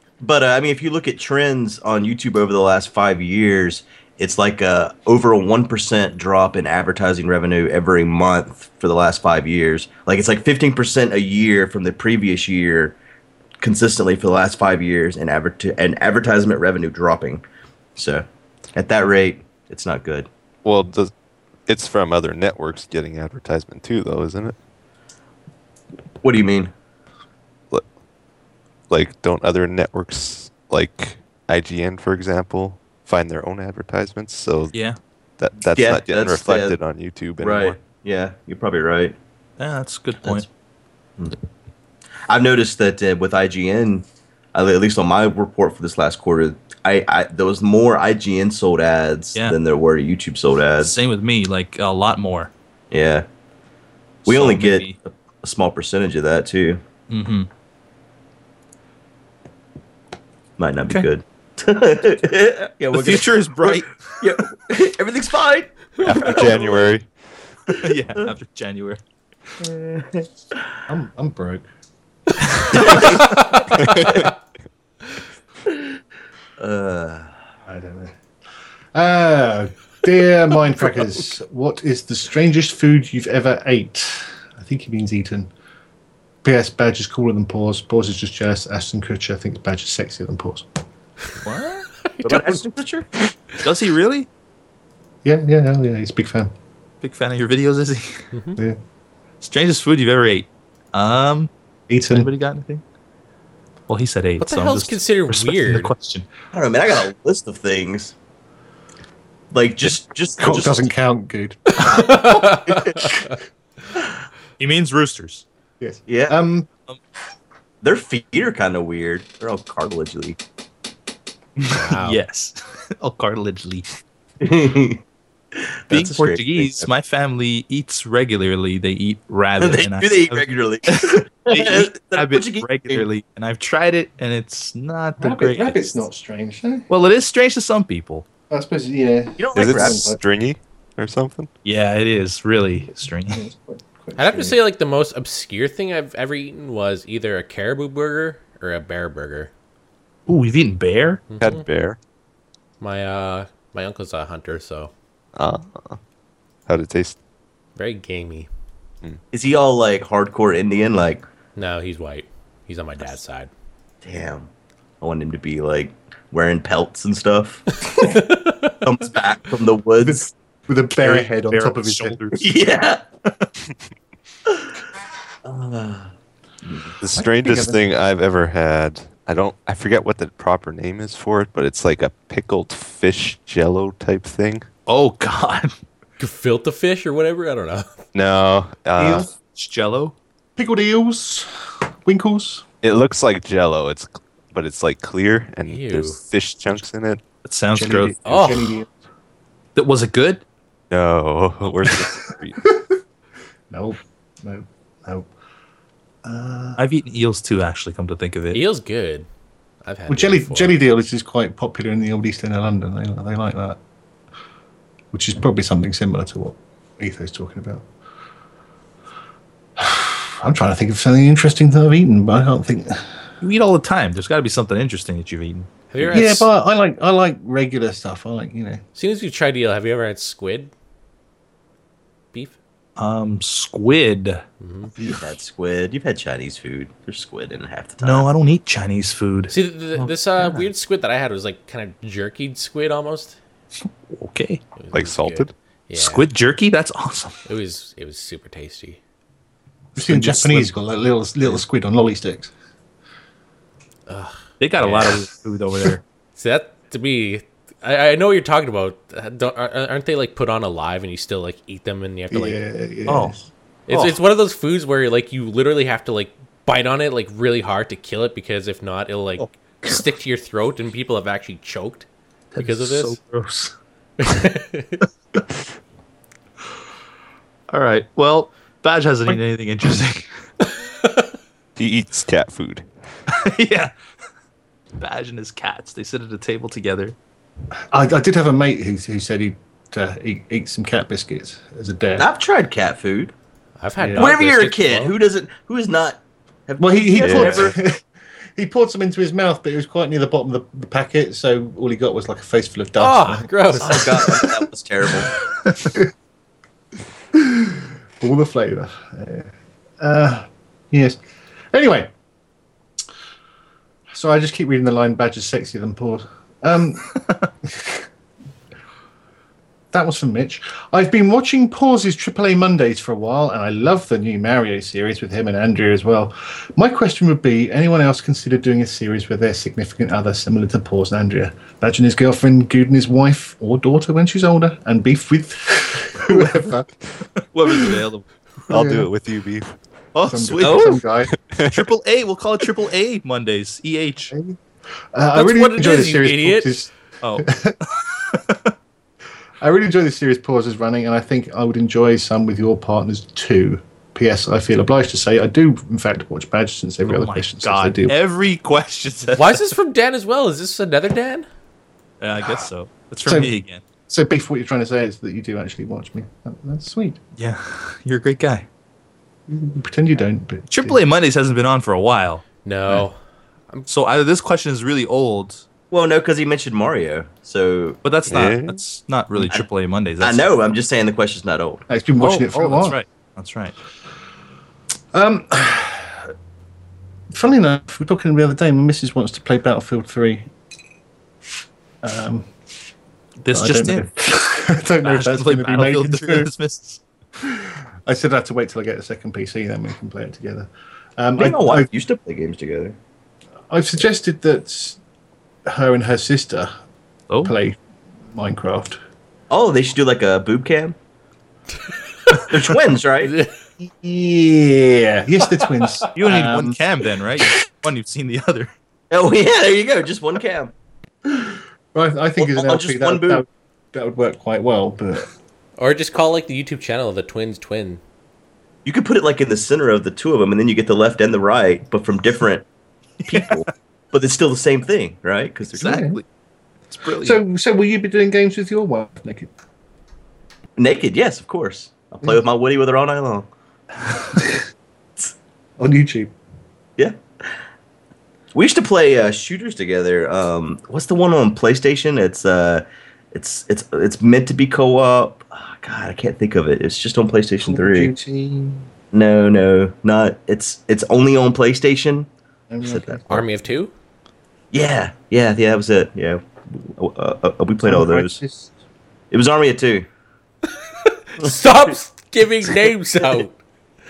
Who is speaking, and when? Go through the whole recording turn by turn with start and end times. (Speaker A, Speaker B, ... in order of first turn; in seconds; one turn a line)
Speaker A: 0.2-13.0
Speaker A: 13.6-17.4
Speaker A: 18.0-20.3
Speaker B: 20.6-21.1
Speaker B: 21.7-24.6
Speaker A: 26.2-26.7
Speaker B: 28.9-34.7
Speaker C: 34.7-35.0
Speaker B: 35.4-37.8
Speaker A: 35.7-36.8
Speaker A: 37.4-39.1
Speaker C: 39.6-40.5
Speaker A: 42.3-51.0
Speaker C: 50.8-52.5
Speaker A: 52.9-53.3
Speaker C: 54.2-55.0
Speaker A: 54.2-56.8
Speaker C: 57.1-57.5
Speaker A: 60.6-66.9
Speaker C: 62.9-64.2
Speaker B: 66.0-67.1
Speaker C: 67.7-69.0
Speaker A: 67.8-68.3
Speaker A: 69.6-70.6
Speaker D: 70.9-71.7
Speaker C: 72.6-73.6
Speaker A: 72.7-73.4
Speaker E: 73.3-73.6
Speaker B: 73.8-74.2
Speaker A: 76.6-77.3
Speaker D: 77.7-78.2
Speaker D: 78.9-85.5
Speaker D: 86.4-90.7
Speaker C: 91.4-91.9
Speaker E: 92.0-92.6
Speaker A: 92.2-93.1
Speaker C: 93.6-94.3
Speaker D: 95.2-96.5
Speaker C: 97.0-98.2
Speaker E: 98.3-98.6
Speaker C: 99.4-101.5
Speaker D: 101.9-102.3
Speaker C: 102.1-102.8
Speaker C: 103.9-106.3
Speaker E: 104.4-105.9
Speaker A: 106.5-108.1
Speaker A: 109.5-110.9
Speaker D: 110.4-112.2
Speaker E: 111.8-113.3
Speaker A: 111.9-113.0
Speaker D: 113.0-113.3
Speaker C: 114.6-115.5
Speaker D: 115.8-116.7
Speaker A: 116.1-116.3
Speaker A: 117.8-120.4
Speaker C: 121.6-123.9
Speaker E: 121.7-122.2
Speaker A: 124.4-125.0
Speaker A: 125.5-126.9
Speaker C: 125.9-136.0
Speaker A: 129.6-133.1
Speaker D: 135.2-136.9
Speaker C: 136.9-138.3
Speaker D: 138.5-140.2
Speaker A: 139.4-140.1
Speaker B: 139.6-141.5
Speaker C: 141.6-143.4
Speaker D: 143.3-144.6
Speaker E: 144.2-149.5
Speaker C: 150.3-151.3
Speaker E: 151.3-151.7
Speaker B: 151.4-152.0
Speaker E: 152.8-154.9
Speaker B: 155.4-156.0
Speaker B: 156.7-157.2
Speaker E: 157.8-158.5
Speaker A: 159.3-161.2
Speaker E: 161.6-163.5
Speaker A: 164.0-164.5
Speaker A: 165.0-168.2
Speaker E: 167.9-168.8
Speaker A: 168.8-170.3
Speaker D: 170.0-172.2
Speaker C: 171.0-172.6
Speaker A: 172.4-173.0
Speaker A: 175.4-176.1
Speaker A: 176.7-176.9
Speaker B: 177.0-184.7
Speaker D: 177.2-177.8
Speaker C: 184.9-185.7
Speaker E: 186.2-188.0
Speaker B: 188.1-189.3
Speaker D: 189.0-189.3
Speaker C: 189.4-190.2
Speaker D: 190.6-191.5
Speaker D: 192.0-192.7
Speaker B: 192.8-197.2
Speaker E: 195.7-196.2
Speaker C: 197.4-198.2
Speaker D: 197.7-198.9
Speaker E: 198.2-198.7
Speaker C: 199.8-200.4
Speaker B: 200.9-202.6
Speaker D: 203.7-205.3
Speaker D: 206.2-206.8
Speaker C: 206.8-208.6
Speaker E: 208.5-209.3
Speaker E: 209.8-210.8
Speaker D: 210.1-213.8
Speaker D: 215.1-217.9
Speaker D: 219.8-223.1
Speaker C: 223.4-225.7
Speaker E: 225.9-226.5
Speaker D: 226.1-228.8
Speaker E: 228.9-230.7
Speaker C: 233.0-234.4
Speaker E: 234.6-234.9
Speaker D: 235.0-235.2
Speaker A: 235.0-238.3
Speaker C: 238.0-239.5
Speaker E: 239.5-243.4
Speaker C: 244.1-244.6
Speaker E: 244.8-246.3
Speaker B: 244.9-245.5
Speaker C: 245.9-247.4
Speaker E: 247.4-249.0
Speaker D: 249.9-252.5
Speaker C: 250.0-250.7
Speaker E: 254.1-255.3
Speaker C: 254.6-256.0
Speaker E: 256.4-262.6
Speaker D: 262.3-263.4
Speaker C: 263.1-263.4
Speaker E: 263.9-272.1
Speaker C: 263.9-264.2
Speaker C: 269.4-270.0
Speaker C: 272.5-273.7
Speaker E: 272.6-273.2
Speaker E: 274.2-275.0
Speaker C: 277.7-280.3
Speaker B: 281.8-282.9
Speaker C: 283.3-283.9
Speaker C: 285.0-287.1
Speaker D: 287.9-292.3
Speaker A: 292.2-293.3
Speaker E: 293.8-295.1
Speaker D: 294.0-294.3
Speaker A: 294.2-297.8
Speaker D: 296.8-298.0
Speaker B: 297.2-297.6
Speaker D: 298.6-304.6
Speaker E: 303.0-304.1
Speaker A: 303.8-305.4
Speaker D: 307.3-309.5
Speaker D: 310.0-311.2
Speaker D: 311.7-312.1
Speaker D: 314.1-318.1
Speaker D: 319.9-336.9
Speaker C: 336.2-336.7
Speaker C: 337.4-338.3
Speaker D: 337.7-338.0
Speaker D: 338.7-339.1
Speaker B: 338.7-339.8
Speaker C: 340.1-341.0
Speaker D: 340.3-341.3
Speaker A: 340.6-341.0
Speaker B: 341.3-341.9
Speaker C: 341.7-344.3
Speaker D: 344.3-344.6
Speaker D: 345.1-347.8
Speaker E: 345.4-346.8
Speaker C: 347.2-348.7
Speaker D: 349.6-358.2
Speaker C: 357.1-359.7
Speaker E: 359.4-361.5
Speaker C: 362.2-363.8
Speaker D: 363.2-363.5
Speaker D: 364.1-367.2
Speaker C: 367.4-368.7
Speaker D: 369.5-371.0
Speaker C: 370.7-372.4
Speaker E: 372.6-373.2
Speaker C: 373.9-375.6
Speaker A: 375.9-378.0
Speaker C: 378.0-380.4
Speaker B: 378.3-378.8
Speaker A: 380.2-381.9
Speaker D: 381.9-383.0
Speaker C: 382.2-383.8
Speaker D: 385.1-386.3
Speaker D: 387.3-390.5
Speaker D: 392.0-392.5
Speaker C: 393.4-394.1
Speaker D: 393.5-396.5
Speaker C: 395.0-397.0
Speaker D: 397.4-401.9
Speaker A: 401.4-403.0
Speaker D: 403.7-405.0
Speaker D: 405.7-406.7
Speaker D: 407.4-407.8
Speaker D: 408.3-409.0
Speaker A: 409.5-410.9
Speaker A: 412.5-413.4
Speaker E: 413.2-413.5
Speaker D: 413.8-416.8
Speaker C: 416.1-418.7
Speaker A: 419.1-420.7
Speaker D: 421.3-425.3
Speaker A: 422.4-423.4
Speaker E: 425.8-428.0
Speaker A: 428.9-432.7
Speaker C: 433.3-433.7
Speaker A: 433.3-436.0
Speaker D: 435.8-436.2
Speaker C: 435.8-436.2
Speaker C: 436.9-437.4
Speaker D: 437.2-439.5
Speaker A: 440.8-443.5
Speaker D: 445.8-446.3
Speaker A: 448.5-458.1
Speaker D: 457.6-458.9
Speaker A: 459.1-462.3
Speaker D: 462.7-463.4
Speaker A: 462.8-463.2
Speaker E: 463.3-463.9
Speaker A: 464.7-468.4
Speaker D: 467.8-468.7
Speaker A: 469.3-470.1
Speaker E: 471.1-473.6
Speaker A: 471.4-471.9